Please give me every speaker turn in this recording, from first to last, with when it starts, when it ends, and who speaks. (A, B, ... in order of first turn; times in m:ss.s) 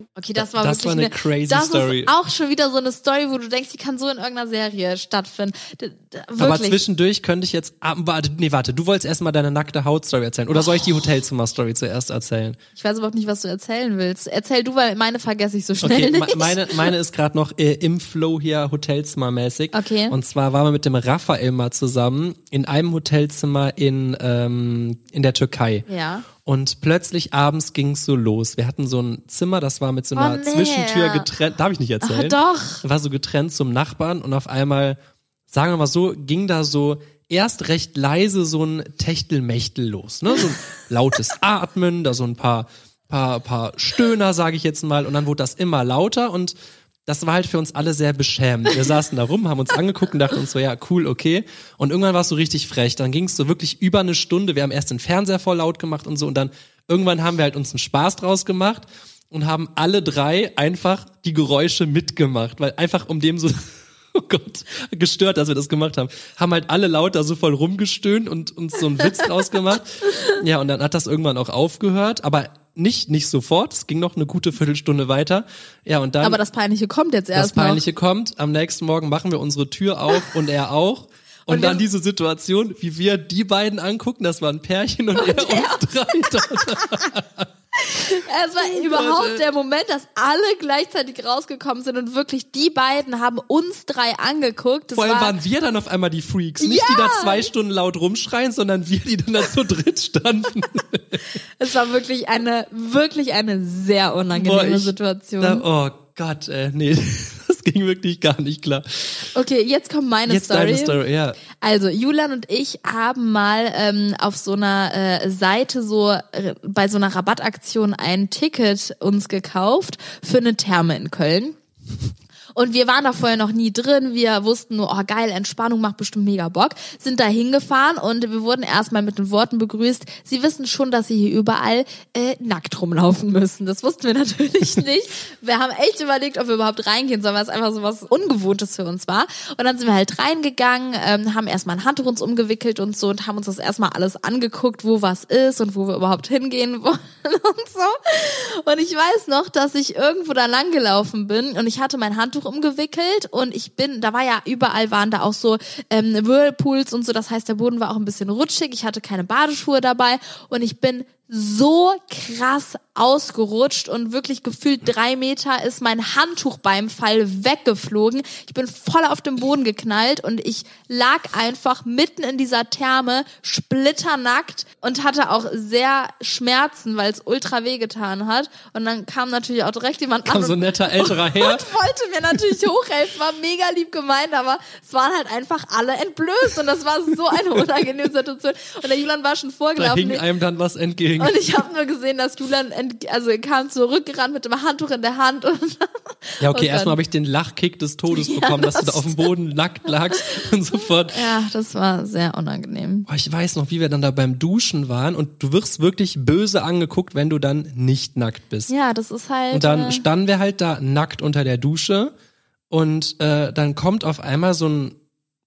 0:00.2-0:06.8 A
0:00.4-0:02.1 B
0:06.4-0:12.6 B
0:10.5-0:11.0 A
0:12.8-0:16.9 A
0:15.8-0:25.9 B
0:19.7-0:20.2 A
0:25.9-0:26.3 A
0:26.4-0:46.6 B
0:30.2-0:31.3 A
0:32.0-0:32.8 A
0:47.1-1:16.4 B
1:16.2-1:17.8 A
1:17.3-1:27.5 B
1:21.5-1:21.8 A
1:25.2-1:27.0 A
1:27.8-1:35.4 A
1:28.0-1:29.4 B
1:34.9-1:41.2 B
1:36.6-1:37.5 A
1:41.6-1:45.6 A
1:44.3-1:49.3 B
1:49.3-1:51.0 A
1:50.3-1:51.4 B
1:51.5-2:01.6 A
2:02.5-3:10.2 A
3:00.3-3:01.7 B
3:09.8-3:11.4 B
3:11.2-3:17.0 A
3:16.4-3:21.2 B
3:18.1-3:19.3 A
3:21.1-3:23.1 A
3:23.1-3:28.7 B
3:28.7-3:30.0 A
3:29.5-3:32.1 B
3:32.7-3:35.0 B